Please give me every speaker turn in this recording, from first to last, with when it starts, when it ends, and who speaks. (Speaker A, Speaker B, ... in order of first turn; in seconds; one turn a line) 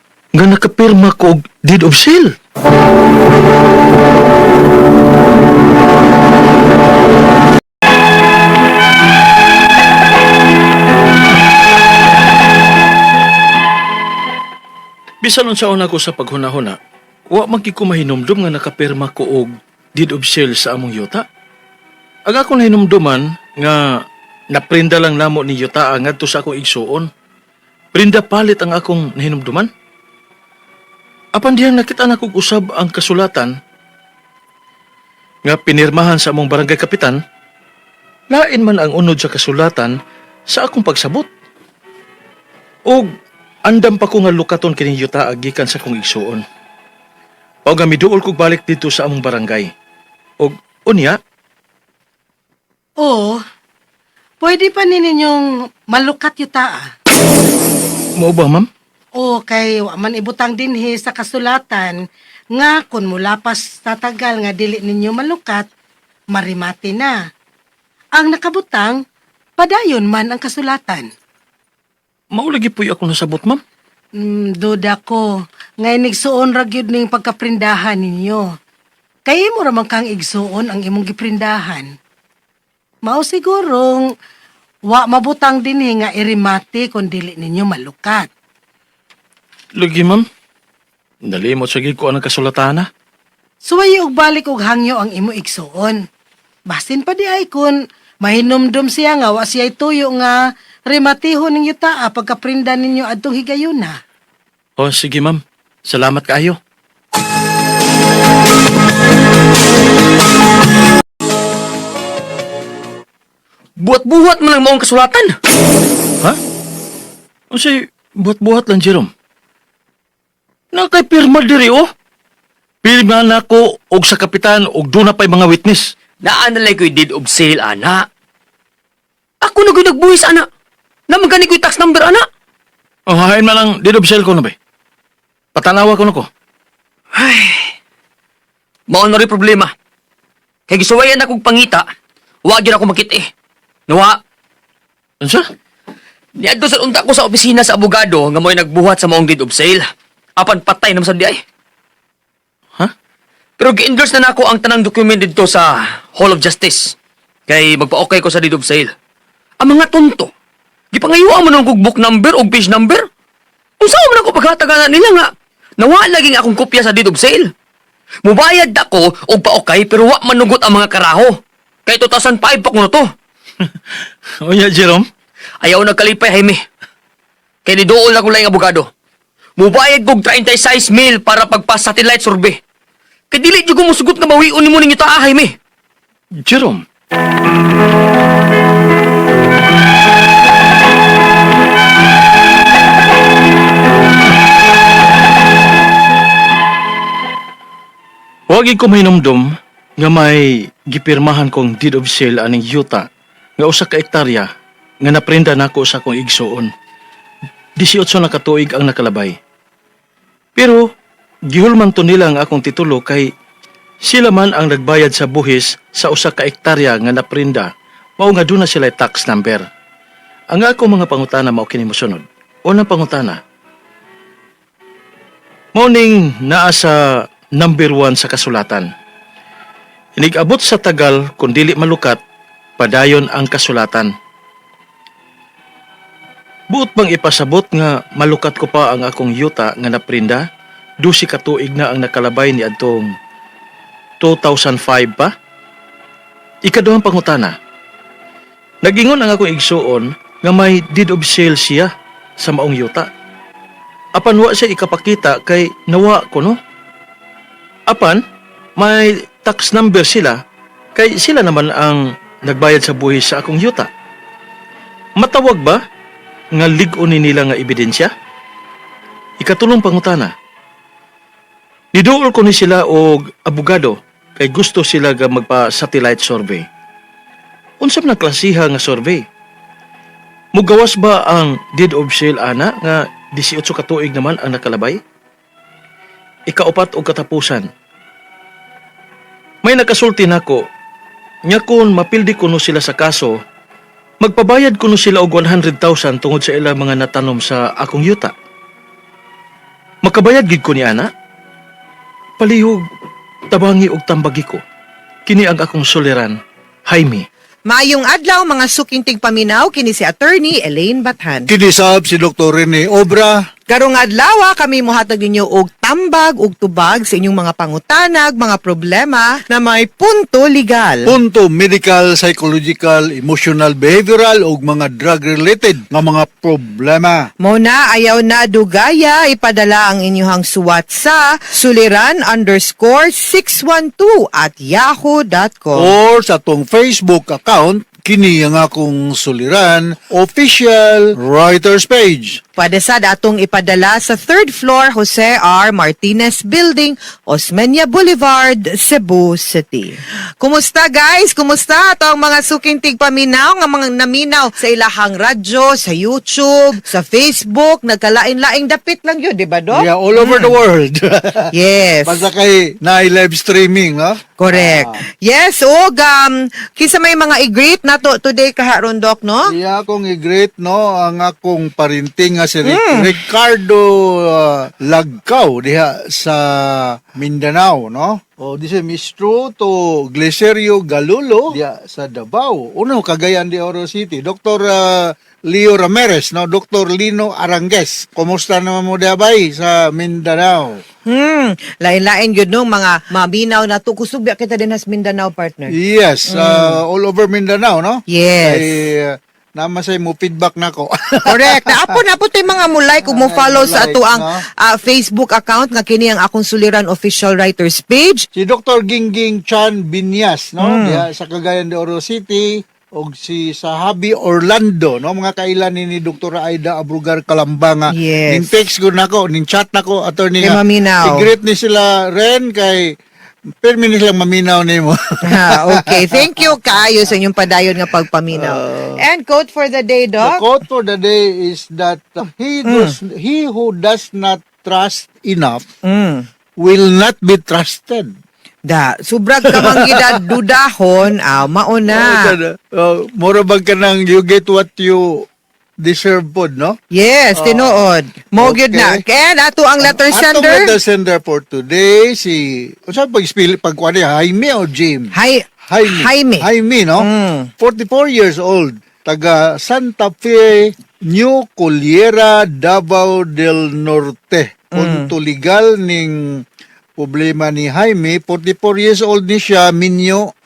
Speaker A: 0.3-2.4
Speaker A: 15.2-16.8
Speaker A: 17.3-21.2
Speaker A: 22.3-27.1
Speaker A: 27.9-29.7
Speaker A: 31.4-33.5
Speaker A: 35.4-37.2
Speaker A: 38.3-40.0
Speaker A: 40.5-41.3
Speaker A: 43.6-46.4
Speaker A: 47.6-49.7
Speaker A: 50.4-51.2
Speaker B: 53.0-53.4
Speaker B: 54.4-56.9
Speaker A: 58.2-58.7
Speaker B: 59.2-62.0
Speaker B: 62.5-65.7
Speaker B: 66.3-67.3
Speaker B: 68.2-69.0
Speaker B: 69.6-71.1
Speaker A: 72.3-73.6
Speaker B: 74.2-78.6
Speaker B: 79.2-81.9
Speaker B: 83.0-84.1
Speaker B: 84.9-88.3
Speaker A: 89.8-90.2
Speaker A: 91.2-92.9
Speaker B: 93.7-96.1
Speaker B: 96.7-104.0
Speaker A: 104.8-106.6
Speaker C: 113.8-115.3
Speaker A: 117.5-119.1
Speaker A: 120.7-121.9
Speaker A: 122.8-125.9
Speaker C: 126.2-128.1
Speaker C: 129.4-130.5
Speaker C: 131.1-132.2
Speaker A: 133.1-134.6
Speaker A: 135.6-136.3
Speaker C: 137.2-137.7
Speaker C: 138.9-139.7
Speaker C: 140.7-141.9
Speaker C: 142.4-143.3
Speaker C: 143.9-144.2
Speaker A: 145.2-145.5
Speaker C: 146.4-151.4
Speaker C: 153.6-156.9
Speaker C: 157.5-158.9
Speaker C: 159.6-160.3
Speaker C: 160.9-163.1
Speaker C: 163.8-167.5
Speaker C: 168.2-173.1
Speaker A: 174.4-175.1
Speaker C: 175.6-176.6
Speaker C: 177.7-178.9
Speaker C: 179.6-182.6
Speaker C: 183.3-185.6
Speaker A: 186.4-186.8
Speaker A: 198.5-203.1
Speaker A: 203.6-204.5
Speaker A: 205.0-206.7
Speaker A: 207.8-209.4
Speaker A: 210.6-210.8
Speaker A: 211.5-213.3
Speaker A: 214.1-219.7
Speaker A: 220.5-223.4
Speaker A: 225.8-228.9
Speaker A: 230.2-232.2
Speaker A: 232.8-234.1
Speaker A: 236.7-240.5
Speaker A: 241.0-243.1
Speaker A: 244.2-245.3
Speaker A: 246.7-247.6
Speaker A: 248.8-253.1
Speaker A: 254.2-256.6
Speaker A: 257.9-258.2
Speaker A: 258.8-260.4
Speaker A: 260.9-263.9
Speaker A: 265.2-265.8
Speaker A: 266.5-268.1
Speaker A: 269.4-270.3
Speaker A: 271.9-276.7
Speaker A: 277.8-279.2
Speaker A: 280.6-285.0
Speaker A: 286.5-287.7
Speaker A: 289.6-290.7
Speaker A: 291.5-293.4
Speaker A: 294.2-298.3
Speaker A: 300.1-301.1
Speaker A: 302.4-302.8
Speaker A: 303.5-304.6
Speaker A: 305.3-306.4
Speaker A: 306.9-307.3
Speaker D: 307.7-311.5
Speaker E: 311.5-313.4
Speaker D: 313.7-321.1
Speaker E: 321.1-327.2
Speaker D: 327.4-335.9
Speaker E: 335.8-342.4
Speaker D: 342.6-360.6
Speaker E: 359.7-361.5
Speaker D: 361.5-362.3
Speaker E: 362.1-365.0
Speaker D: 364.4-369.5
Speaker E: 369.5-390.8
Speaker D: 372.6-373.2
Speaker D: 391.1-395.7
Speaker E: 395.7-402.0
Speaker D: 396.3-396.8
Speaker D: 398.1-398.7
Speaker D: 401.3-408.3
Speaker E: 403.1-404.4
Speaker E: 408.3-422.9
Speaker D: 410.6-411.1
Speaker D: 417.9-418.6
Speaker D: 420.4-421.3
Speaker E: 423.6-426.8
Speaker D: 425.3-430.4
Speaker E: 428.3-429.0
Speaker E: 430.2-435.6
Speaker D: 432.7-432.9
Speaker D: 435.9-436.3
Speaker E: 436.6-438.1
Speaker D: 438.7-442.3
Speaker E: 439.5-440.4
Speaker E: 441.9-445.2
Speaker E: 445.8-446.8
Speaker D: 446.9-450.7
Speaker E: 447.4-449.0
Speaker E: 449.8-455.1
Speaker D: 455.1-456.4
Speaker E: 455.7-457.1
Speaker D: 457.0-457.5
Speaker E: 457.6-466.4
Speaker D: 464.8-465.1
Speaker E: 467.0-470.3